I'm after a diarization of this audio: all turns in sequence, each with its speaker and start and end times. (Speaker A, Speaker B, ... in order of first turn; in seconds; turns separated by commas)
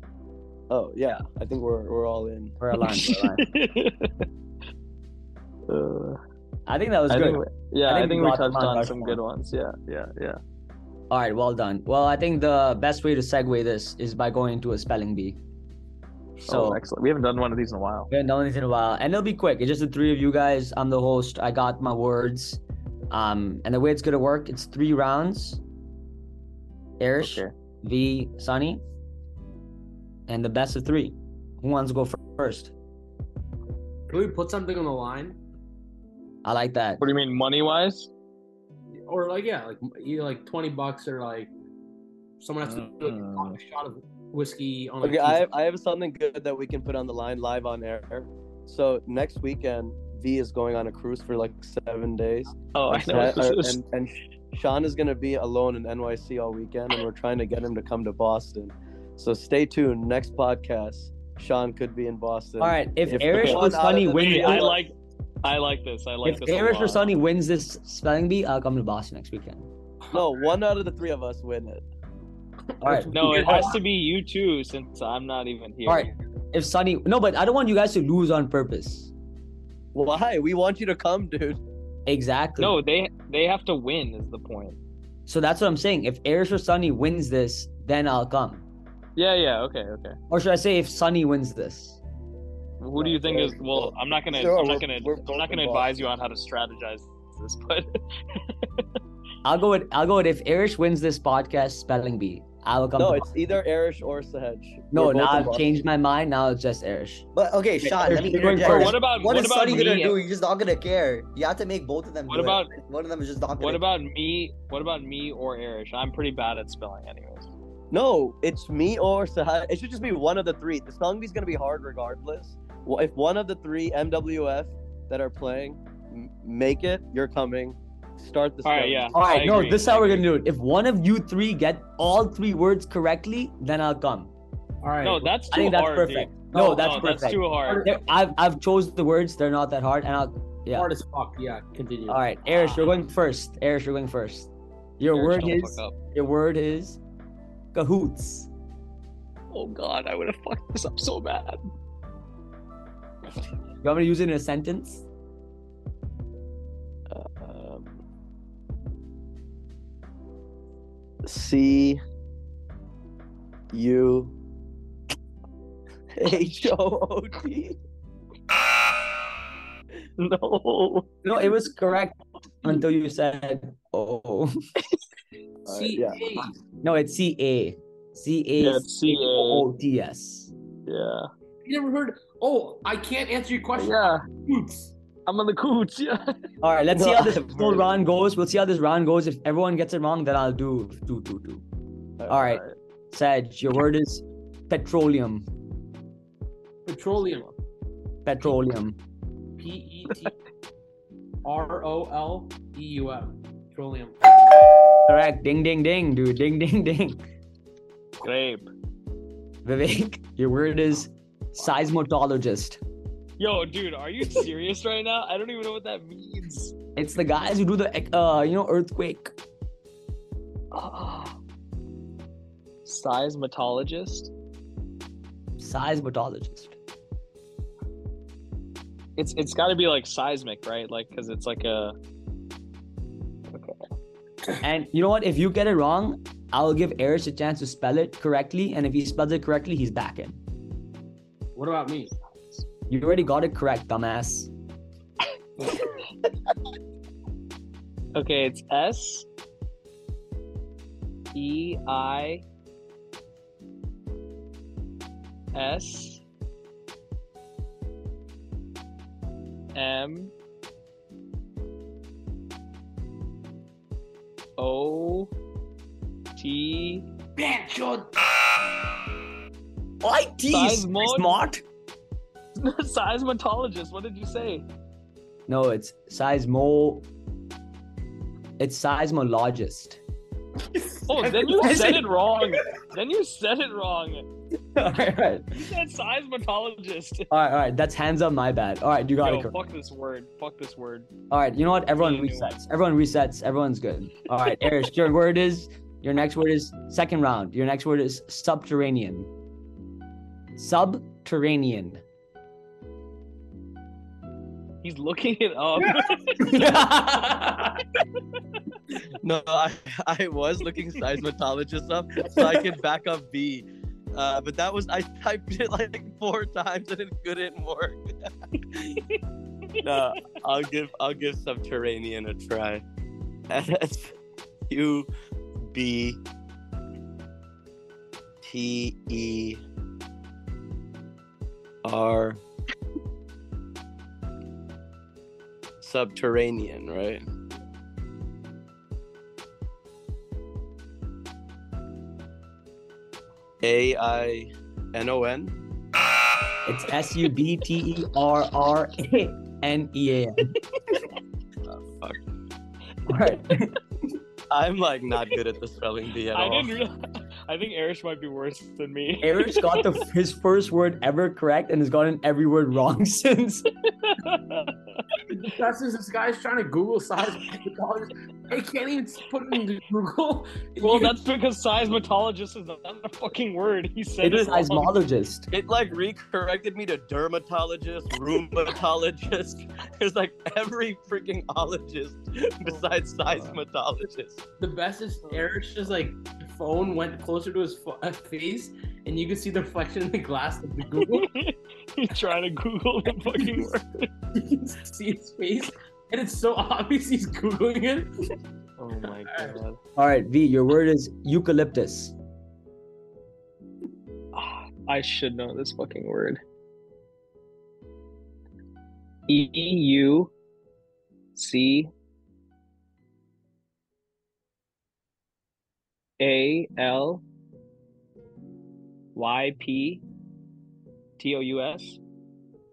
Speaker A: 0.7-2.6, Speaker B: 2.6-3.5, Speaker C: 2.8-4.3, Speaker C: 5.7-6.2, Speaker B: 6.7-9.2, Speaker C: 7.1-10.4, Speaker B: 11.1-15.4, Speaker B: 16.4-16.8, Speaker C: 16.4-18.1, Speaker B: 18.1-25.6, Speaker B: 27.0-28.8, Speaker C: 27.2-27.5, Speaker B: 30.3-32.7, Speaker D: 34.1-35.4, Speaker B: 36.5-37.0, Speaker C: 37.0-38.1, Speaker D: 39.1-41.5, Speaker D: 42.4-45.5, Speaker C: 42.6-43.6, Speaker A: 45.0-64.9, Speaker C: 52.7-53.8, Speaker B: 62.6-64.7, Speaker C: 63.3-67.1, Speaker B: 66.2-69.7, Speaker A: 70.1-71.8, Speaker B: 72.8-73.8, Speaker D: 72.8-73.8, Speaker C: 73.1-76.2, Speaker B: 75.9-79.1, Speaker A: 79.9-81.6, Speaker B: 82.1-82.8, Speaker C: 82.6-84.8, Speaker B: 85.3-88.7, Speaker C: 89.2-90.2, Speaker B: 90.3-92.0, Speaker C: 92.8-98.8, Speaker A: 93.0-96.1, Speaker B: 99.4-103.3, Speaker A: 103.0-105.8, Speaker B: 104.9-107.3, Speaker E: 107.3-113.8, Speaker B: 107.8-109.0, Speaker C: 108.5-110.2, Speaker C: 112.3-112.7, Speaker C: 113.6-117.5, Speaker A: 117.9-129.2, Speaker C: 128.6-130.3, Speaker B: 129.1-134.3, Speaker D: 134.8-135.3, Speaker C: 135.0-137.9, Speaker B: 135.5-140.9, Speaker D: 137.7-137.9, Speaker D: 140.7-142.3, Speaker B: 142.1-147.0, Speaker C: 142.5-142.9, Speaker C: 145.1-146.0, Speaker B: 147.7-148.5, Speaker C: 149.5-151.6, Speaker B: 153.8-155.0, Speaker A: 157.1-158.0, Speaker A: 161.2-162.0, Speaker A: 163.7-164.3, Speaker A: 166.2-167.8, Speaker C: 170.2-171.1, Speaker B: 171.2-174.5, Speaker D: 175.7-176.5, Speaker A: 175.7-176.2, Speaker B: 176.8-180.5, Speaker C: 178.6-179.7, Speaker C: 180.9-181.3, Speaker D: 181.7-184.9, Speaker C: 183.8-184.2, Speaker C: 185.3-186.3, Speaker B: 186.6-191.6, Speaker A: 186.9-187.9, Speaker A: 192.2-192.5, Speaker B: 192.3-195.5, Speaker C: 192.4-192.8, Speaker D: 196.9-197.5, Speaker B: 198.3-199.0, Speaker D: 199.6-200.3, Speaker D: 201.4-204.7, Speaker B: 205.1-207.2, Speaker C: 208.2-208.7, Speaker B: 209.7-212.8, Speaker C: 213.4-216.7, Speaker B: 217.0-219.3, Speaker C: 220.7-221.4, Speaker C: 222.8-224.3, Speaker B: 225.6-226.8, Speaker C: 229.2-232.0, Speaker C: 233.5-233.8, Speaker B: 234.6-240.4, Speaker D: 241.6-242.1, Speaker B: 242.9-244.5, Speaker C: 248.2-249.3, Speaker C: 251.3-252.4, Speaker C: 255.6-256.2, Speaker C: 259.8-260.3, Speaker C: 264.6-265.3, Speaker C: 266.4-267.1, Speaker D: 267.4-268.1, Speaker B: 270.0-271.6, Speaker C: 270.5-271.4, Speaker C: 272.6-274.6, Speaker B: 275.5-277.1, Speaker B: 278.6-280.0, Speaker C: 281.1-284.3, Speaker B: 281.2-282.1, Speaker B: 284.8-285.5, Speaker C: 285.5-287.3, Speaker B: 287.3-289.5, Speaker C: 289.2-291.1, Speaker B: 291.3-299.3, Speaker C: 292.0-292.6, Speaker B: 300.6-302.0, Speaker C: 304.8-306.7, Speaker B: 306.4-307.8, Speaker A: 309.2-318.0, Speaker A: 318.6-319.0, Speaker A: 319.8-322.9, Speaker A: 323.5-324.1, Speaker A: 324.7-325.1, Speaker A: 325.7-326.2, Speaker A: 328.4-329.6, Speaker A: 331.8-332.4, Speaker A: 335.8-337.2, Speaker A: 343.6-345.6, Speaker B: 346.7-350.5, Speaker A: 351.8-352.2, Speaker B: 353.1-353.8, Speaker A: 354.5-356.8, Speaker C: 356.3-357.0, Speaker C: 357.5-359.9, Speaker B: 359.2-363.6, Speaker C: 364.0-365.0, Speaker D: 365.3-371.1, Speaker C: 370.8-374.9, Speaker B: 374.2-375.5, Speaker A: 375.5-384.4, Speaker C: 383.3-383.6, Speaker D: 384.6-391.3, Speaker C: 391.0-394.1, Speaker D: 394.4-398.1, Speaker A: 398.8-399.6, Speaker C: 398.9-399.8, Speaker B: 400.0-402.1, Speaker C: 404.3-406.4, Speaker C: 409.3-410.3, Speaker C: 411.4-411.9, Speaker C: 416.2-417.2, Speaker C: 419.1-420.0, Speaker C: 421.2-422.0